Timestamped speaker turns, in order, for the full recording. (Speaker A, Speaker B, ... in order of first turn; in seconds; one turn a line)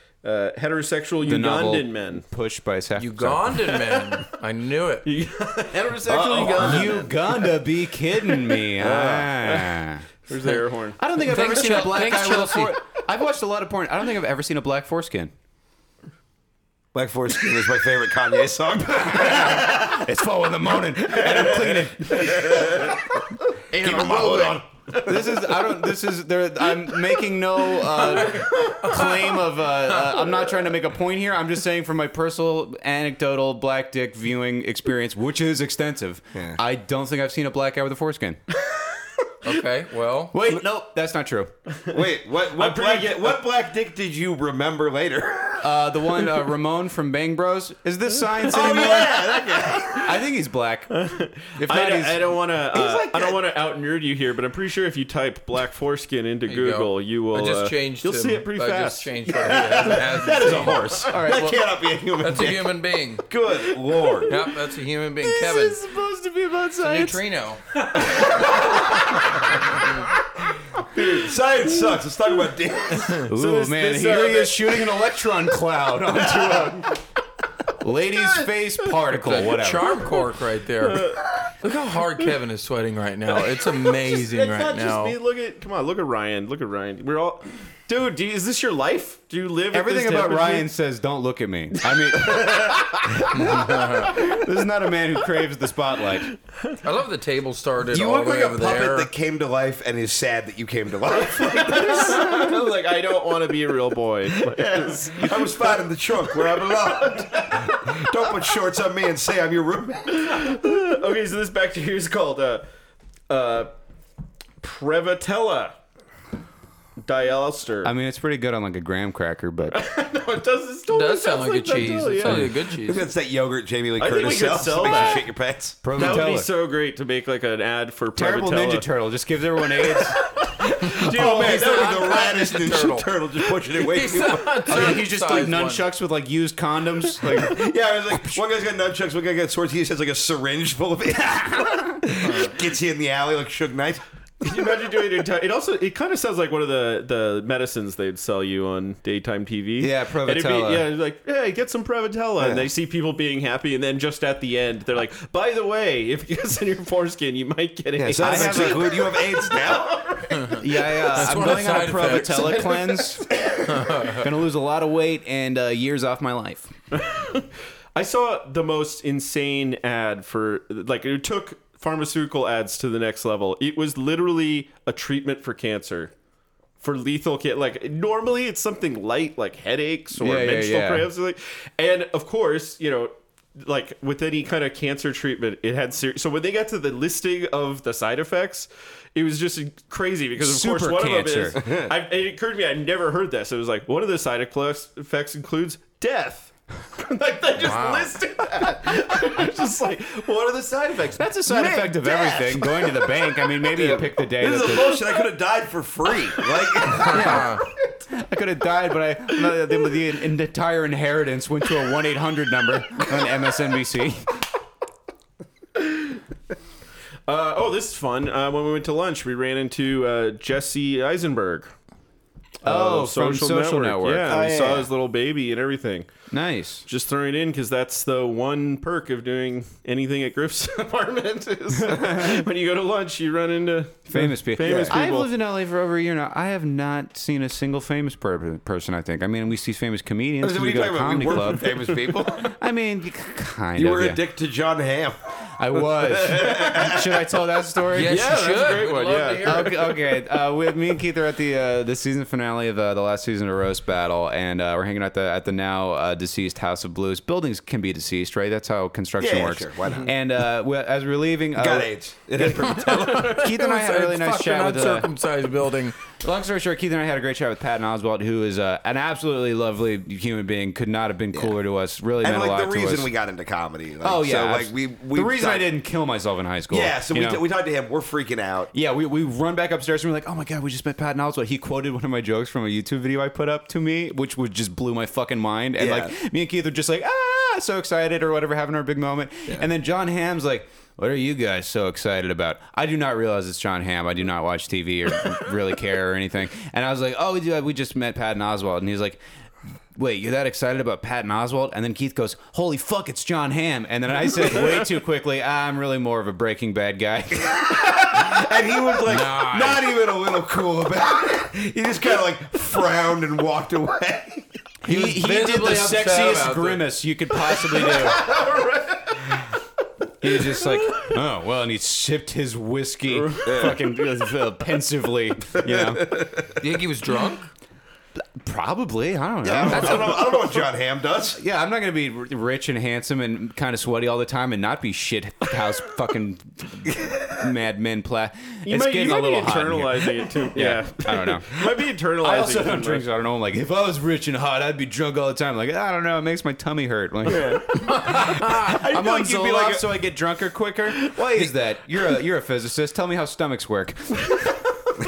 Speaker A: 0.2-2.2
Speaker B: 1.2-3.8
Speaker C: 3.0-5.1
Speaker A: 5.0-7.1
Speaker D: 6.1-7.1
Speaker B: 6.5-10.0
Speaker A: 8.4-11.0
Speaker B: 11.0-15.3
Speaker C: 11.2-12.7
Speaker D: 16.9-20.0
Speaker B: 19.1-22.9
Speaker D: 21.2-23.0
Speaker D: 23.7-25.2
Speaker C: 23.8-24.5
Speaker B: 25.1-38.4
Speaker C: 28.1-29.1
Speaker C: 39.4-40.3
Speaker B: 40.3-41.5
Speaker D: 41.9-45.7
Speaker A: 42.5-43.4
Speaker B: 45.6-49.3
Speaker A: 48.4-49.0
Speaker D: 48.5-50.1
Speaker A: 49.6-50.0
Speaker B: 50.0-50.9
Speaker A: 50.9-61.3
Speaker B: 51.6-52.3
Speaker D: 52.7-53.4
Speaker C: 56.5-61.5
Speaker D: 59.3-64.3
Speaker B: 61.1-61.6
Speaker C: 62.2-63.3
Speaker A: 63.5-64.5
Speaker C: 64.3-65.8
Speaker A: 65.2-67.2
Speaker C: 66.8-67.6
Speaker A: 67.8-69.2
Speaker D: 68.1-68.8
Speaker D: 70.9-73.3
Speaker A: 73.2-75.0
Speaker B: 73.3-77.0
Speaker A: 76.3-76.7
Speaker B: 77.8-80.0
Speaker A: 78.2-78.9
Speaker C: 79.1-81.1
Speaker A: 80.8-81.3
Speaker C: 81.6-85.2
Speaker A: 83.3-90.7
Speaker B: 89.7-96.3
Speaker C: 93.3-94.1
Speaker C: 96.8-99.1
Speaker D: 97.9-102.6
Speaker A: 101.1-107.8
Speaker D: 104.4-110.3
Speaker A: 110.1-112.7
Speaker A: 113.3-113.7
Speaker A: 114.6-115.8
Speaker A: 117.0-117.9
Speaker B: 117.8-119.8
Speaker A: 119.7-122.5
Speaker C: 120.9-123.1
Speaker D: 122.7-126.2
Speaker A: 124.0-125.3
Speaker B: 125.8-126.5
Speaker A: 125.9-128.9
Speaker B: 128.2-130.2
Speaker A: 129.9-132.2
Speaker D: 130.7-134.9
Speaker C: 131.0-133.1
Speaker C: 133.7-135.8
Speaker B: 134.7-137.6
Speaker D: 137.3-145.0
Speaker B: 141.6-142.0
Speaker A: 144.4-160.6
Speaker B: 149.8-150.9
Speaker D: 152.4-152.7
Speaker D: 158.0-160.3
Speaker B: 158.1-159.0
Speaker C: 160.3-160.6
Speaker B: 160.6-163.2
Speaker C: 161.1-162.7
Speaker A: 161.3-163.0
Speaker C: 163.7-164.2
Speaker B: 164.1-166.7
Speaker A: 166.9-176.1
Speaker A: 176.8-202.4
Speaker B: 180.2-181.1
Speaker B: 190.4-191.6
Speaker D: 191.6-191.9
Speaker C: 197.6-198.1
Speaker B: 201.2-205.0
Speaker D: 201.8-202.2
Speaker D: 203.7-207.5
Speaker A: 206.3-207.0
Speaker B: 207.0-207.6
Speaker C: 207.1-207.6
Speaker B: 208.1-214.3
Speaker A: 215.8-216.2
Speaker A: 217.3-221.7
Speaker A: 222.6-226.1
Speaker B: 222.6-224.5
Speaker D: 224.3-224.9
Speaker B: 226.3-226.9
Speaker A: 226.9-235.3
Speaker B: 231.8-232.4
Speaker B: 234.1-244.2
Speaker D: 234.6-235.0
Speaker D: 240.4-242.5
Speaker D: 243.8-247.1
Speaker B: 245.6-248.4
Speaker C: 247.9-249.7
Speaker A: 248.0-249.8
Speaker B: 249.4-265.1
Speaker D: 259.2-260.1
Speaker D: 261.6-263.4
Speaker C: 262.7-265.9
Speaker B: 266.2-273.1
Speaker D: 272.2-275.7
Speaker B: 274.0-277.4
Speaker D: 276.7-278.7
Speaker B: 278.7-299.2
Speaker D: 285.8-286.1
Speaker B: 299.9-308.4
Speaker D: 307.5-314.5
Speaker C: 309.1-309.9
Speaker C: 314.9-316.9
Speaker B: 314.9-318.2
Speaker A: 317.9-319.2
Speaker B: 320.2-326.2
Speaker A: 320.6-321.1
Speaker A: 323.1-323.7
Speaker D: 323.4-323.8
Speaker D: 325.6-326.5
Speaker C: 326.6-327.4
Speaker B: 328.2-330.4
Speaker D: 329.4-331.4
Speaker B: 331.4-354.6
Speaker A: 338.6-343.1
Speaker D: 347.3-349.8
Speaker C: 348.1-348.5